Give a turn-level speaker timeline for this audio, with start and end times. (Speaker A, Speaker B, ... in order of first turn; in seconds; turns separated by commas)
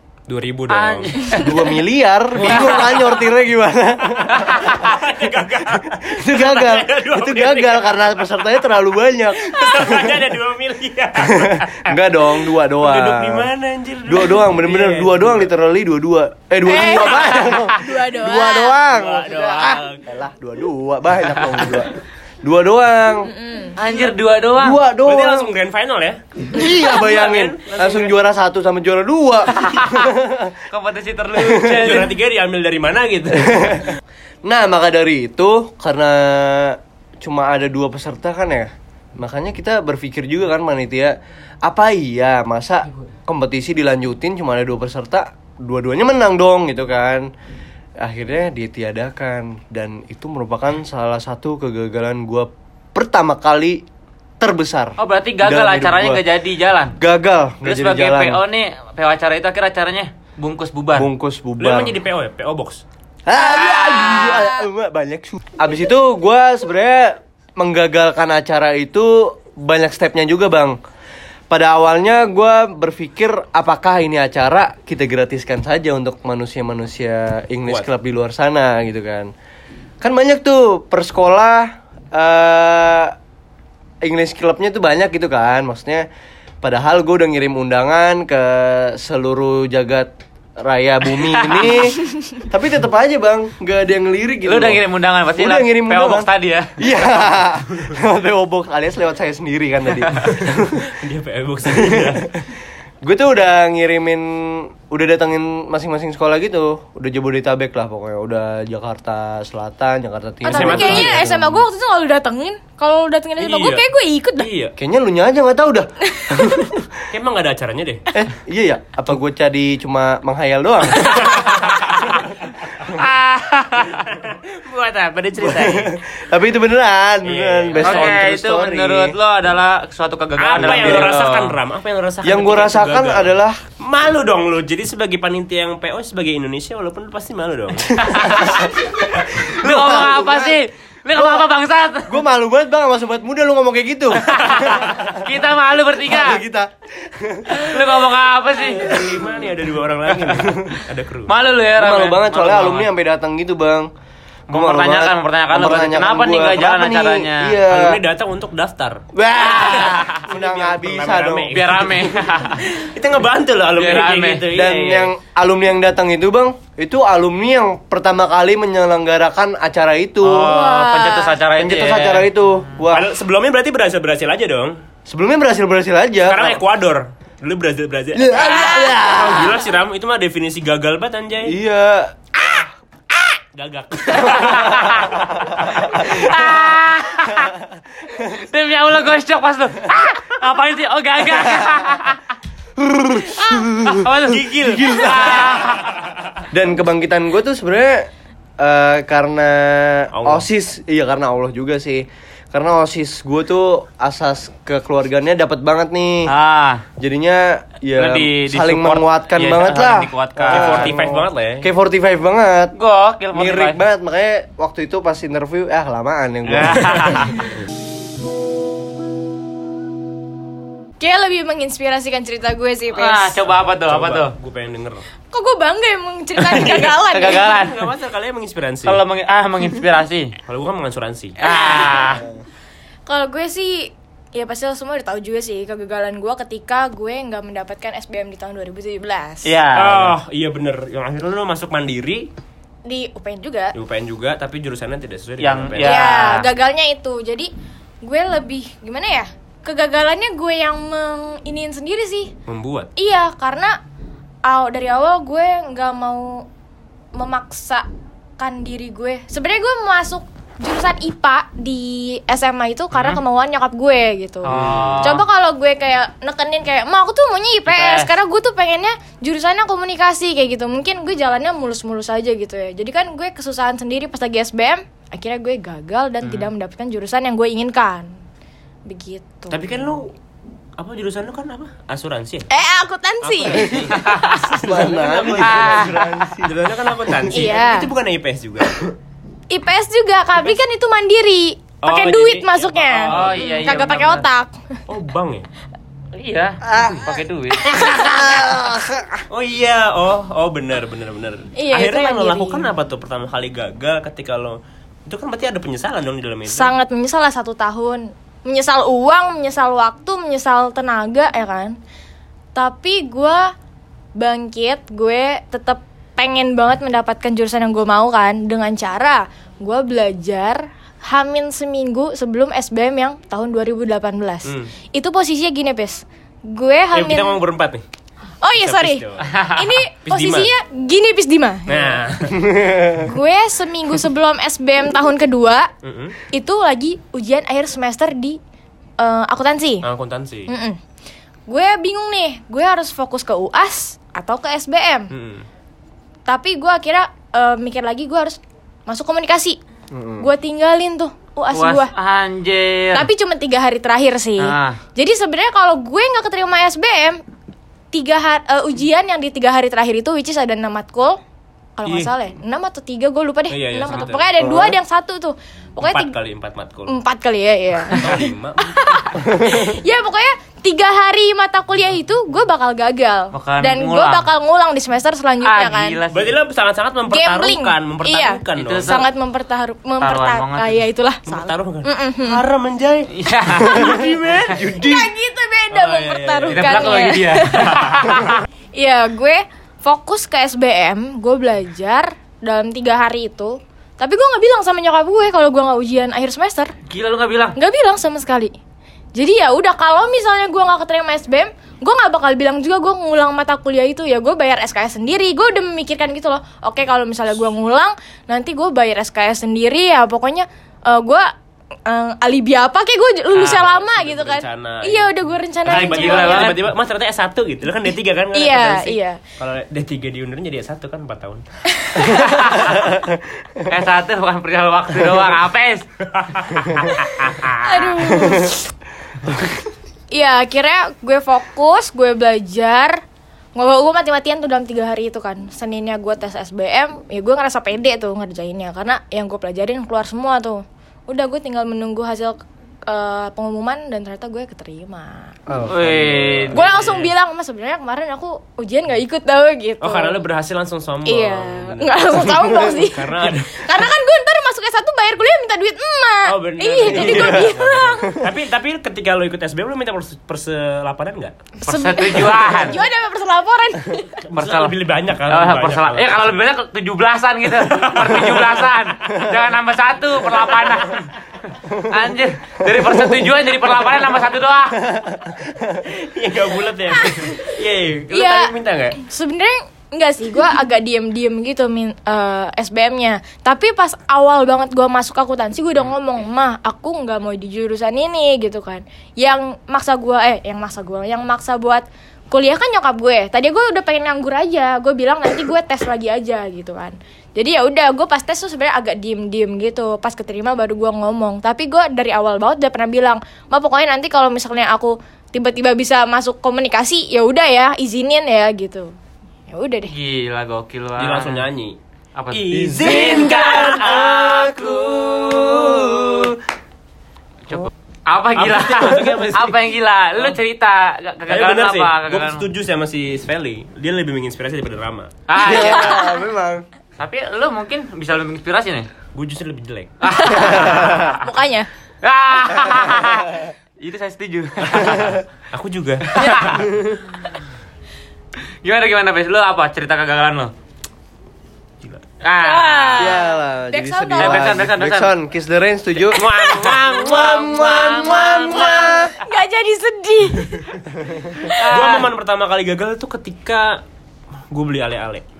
Speaker A: 0.3-1.6, Speaker B: 0.7-1.7, Speaker C: 1.4-4.9, Speaker A: 2.3-3.2, Speaker B: 2.4-2.8, Speaker A: 4.2-8.1, Speaker B: 4.3-4.9, Speaker C: 5.9-10.2, Speaker A: 9.4-15.5, Speaker C: 11.2-13.5, Speaker C: 14.1-23.3, Speaker D: 16.6-18.8, Speaker A: 18.9-20.1, Speaker D: 23.2-23.8, Speaker B: 23.8-24.8, Speaker C: 24.6-25.5, Speaker A: 25.0-28.1, Speaker C: 26.5-30.6, Speaker B: 29.6-30.1, Speaker B: 30.7-32.1, Speaker C: 31.3-31.9, Speaker A: 31.4-33.9, Speaker C: 33.4-33.8, Speaker C: 34.5-47.3, Speaker C: 48.0-53.8, Speaker C: 54.4-56.2, Speaker B: 55.0-56.9, Speaker C: 57.0-58.4, Speaker B: 57.6-61.1, Speaker C: 60.9-61.9, Speaker A: 61.6-62.8, Speaker C: 63.2-70.8, Speaker B: 63.6-64.4, Speaker D: 63.8-64.2, Speaker C: 71.5-79.3, Speaker C: 80.0-83.2, Speaker C: 84.0-86.1, Speaker C: 86.6-94.8, Speaker B: 91.2-91.9, Speaker B: 94.4-96.8, Speaker C: 95.3-100.9, Speaker A: 100.1-102.3, Speaker C: 101.7-102.2, Speaker C: 103.0-111.6, Speaker D: 110.4-114.5, Speaker A: 110.5-111.3, Speaker A: 113.4-113.8, Speaker A: 114.4-114.7, Speaker C: 114.8-117.0, Speaker D: 116.2-116.5, Speaker A: 117.1-118.0, Speaker C: 118.1-121.8, Speaker B: 121.5-122.2, Speaker B: 122.8-125.8, Speaker A: 124.1-124.4, Speaker A: 125.2-125.9, Speaker C: 125.5-129.2, Speaker A: 127.2-128.2, Speaker B: 127.8-131.6, Speaker A: 130.4-138.4, Speaker C: 130.6-131.2, Speaker C: 132.2-133.6, Speaker B: 138.0-138.7, Speaker B: 139.2-142.2, Speaker C: 139.4-140.6, Speaker C: 141.2-141.5, Speaker C: 142.1-145.2, Speaker B: 144.2-146.4, Speaker C: 146.1-148.0, Speaker B: 147.5-148.9, Speaker A: 148.8-151.3, Speaker C: 148.8-149.2, Speaker B: 150.1-150.5, Speaker B: 151.3-152.9, Speaker C: 151.8-153.9, Speaker C: 154.5-158.0, Speaker B: 154.5-157.6, Speaker A: 157.7-159.0, Speaker C: 159.1-161.7, Speaker A: 159.6-165.1, Speaker B: 159.7-160.2, Speaker B: 161.5-162.8, Speaker B: 163.7-164.4, Speaker C: 164.5-170.7, Speaker B: 170.2-172.3, Speaker D: 170.4-171.3, Speaker C: 171.6-173.1, Speaker A: 172.9-174.8, Speaker C: 175.1-176.6, Speaker A: 176.3-181.6, Speaker C: 178.1-179.6, Speaker D: 178.5-179.0, Speaker C: 181.4-183.2, Speaker A: 183.5-184.9, Speaker B: 184.2-185.3, Speaker C: 184.8-185.1, Speaker B: 185.8-187.6, Speaker C: 185.9-186.7, Speaker B: 188.2-192.3, Speaker C: 192.8-195.8, Speaker B: 193.2-196.0, Speaker C: 196.5-206.3, Speaker A: 200.1-200.4, Speaker B: 206.3-206.8, Speaker C: 207.0-212.7, Speaker B: 208.0-211.1, Speaker A: 210.5-211.7, Speaker B: 212.7-213.8, Speaker C: 213.3-217.4, Speaker B: 216.5-217.5, Speaker D: 221.0-223.4, Speaker B: 222.9-224.3, Speaker A: 223.9-225.1, Speaker D: 225.3-227.4, Speaker B: 226.4-227.9, Speaker A: 227.3-229.0, Speaker B: 228.8-230.3, Speaker A: 230.4-231.4, Speaker D: 231.4-232.2, Speaker B: 231.4-232.2, Speaker D: 233.1-239.5, Speaker B: 239.4-240.2, Speaker A: 239.8-242.3, Speaker D: 242.8-243.7, Speaker A: 243.7-246.2, Speaker B: 245.4-246.5, Speaker D: 245.8-247.5, Speaker D: 248.0-252.3, Speaker A: 252.5-252.9, Speaker D: 252.9-253.8, Speaker D: 254.4-256.4, Speaker D: 257.2-257.9, Speaker D: 258.4-278.1, Speaker B: 262.9-263.2, Speaker B: 264.4-265.2, Speaker A: 264.5-265.2, Speaker B: 267.7-268.1, Speaker B: 276.2-276.5, Speaker D: 278.9-279.6, Speaker A: 279.5-280.1, Speaker A: 280.8-282.5, Speaker D: 282.5-284.2, Speaker A: 283.2-288.9, Speaker B: 283.9-284.3, Speaker C: 284.6-286.6, Speaker B: 285.3-286.3, Speaker D: 287.3-287.9, Speaker D: 289.5-294.8, Speaker A: 291.8-293.4, Speaker B: 293.0-294.2, Speaker A: 294.9-295.5, Speaker B: 296.1-298.5, Speaker C: 296.6-297.1, Speaker C: 298.0-299.2, Speaker A: 299.3-306.7, Speaker D: 301.6-302.7, Speaker D: 306.4-311.8, Speaker D: 312.6-313.5, Speaker D: 314.2-327.4, Speaker A: 324.4-324.7, Speaker A: 326.9-327.8, Speaker D: 328.4-332.0, Speaker A: 328.6-329.5, Speaker B: 329.3-329.7, Speaker A: 330.0-330.5, Speaker A: 331.7-333.0, Speaker D: 332.9-335.7, Speaker A: 335.8-336.2, Speaker D: 336.3-338.4, Speaker D: 339.0-339.8, Speaker A: 339.8-340.5, Speaker D: 340.5-340.8, Speaker D: 341.5-345.1, Speaker A: 345.1-345.4, Speaker D: 346.3-349.6, Speaker C: 349.9-350.3, Speaker D: 350.2-351.9, Speaker B: 351.5-353.1, Speaker D: 352.9-357.2, Speaker B: 354.4-354.8, Speaker D: 357.9-361.2, Speaker D: 361.8-366.2, Speaker A: 361.9-362.1, Speaker A: 363.5-364.4, Speaker C: 364.4-364.8, Speaker A: 365.8-366.9, Speaker D: 366.9-376.0, Speaker A: 367.8-368.8, Speaker B: 373.3-374.3, Speaker B: 375.4-376.4, Speaker A: 376.1-379.0, Speaker D: 377.1-382.4, Speaker B: 378.6-379.1, Speaker B: 380.0-380.8, Speaker A: 381.2-385.1, Speaker B: 383.1-383.9, Speaker D: 383.6-384.1, Speaker C: 384.6-384.9, Speaker D: 384.7-388.2, Speaker A: 385.7-387.3, Speaker B: 386.5-388.4, Speaker D: 388.8-396.7, Speaker B: 396.9-397.6, Speaker D: 397.6-398.5, Speaker D: 399.2-411.3, Speaker D: 411.9-416.6, Speaker A: 413.3-421.4, Speaker B: 415.7-416.7, Speaker D: 418.3-419.2, Speaker D: 421.7-422.2, Speaker A: 421.9-422.8, Speaker B: 422.1-422.9, Speaker B: 423.6-425.9, Speaker A: 426.1-428.1, Speaker D: 427.6-428.7, Speaker D: 430.1-433.0, Speaker D: 433.6-445.4, Speaker C: 445.5-446.5, Speaker B: 445.7-447.1, Speaker A: 445.8-446.6, Speaker D: 446.5-450.2, Speaker A: 449.8-453.7, Speaker D: 451.1-458.2, Speaker A: 456.3-461.5, Speaker D: 461.6-464.2, Speaker B: 461.6-462.8, Speaker A: 464.3-466.4, Speaker B: 464.3-474.8, Speaker A: 467.5-469.3, Speaker A: 470.2-471.1, Speaker A: 473.8-474.0, Speaker C: 474.9-475.4, Speaker A: 475.7-478.9, Speaker D: 477.1-477.4, Speaker D: 478.1-508.9, Speaker D: 509.5-509.9, Speaker B: 509.9-511.4, Speaker A: 511.0-511.8, Speaker B: 512.1-516.4, Speaker A: 512.3-514.8, Speaker C: 512.8-513.3, Speaker B: 517.5-522.4, Speaker A: 518.4-519.6, Speaker A: 521.3-525.1, Speaker B: 525.3-526.2, Speaker C: 525.4-526.6, Speaker D: 525.6-526.2, Speaker B: 527.0-528.9, Speaker A: 529.1-529.9, Speaker B: 530.0-531.3, Speaker D: 530.1-531.7, Speaker B: 532.0-535.2, Speaker A: 535.5-537.0, Speaker B: 536.1-536.6, Speaker B: 538.6-540.5, Speaker B: 542.2-543.2, Speaker D: 542.4-544.5, Speaker C: 543.0-546.2, Speaker B: 544.2-545.1, Speaker A: 546.1-548.1, Speaker B: 546.2-549.1, Speaker C: 547.1-549.1, Speaker D: 548.6-550.8, Speaker B: 551.5-552.1, Speaker A: 551.6-553.8, Speaker A: 554.5-555.2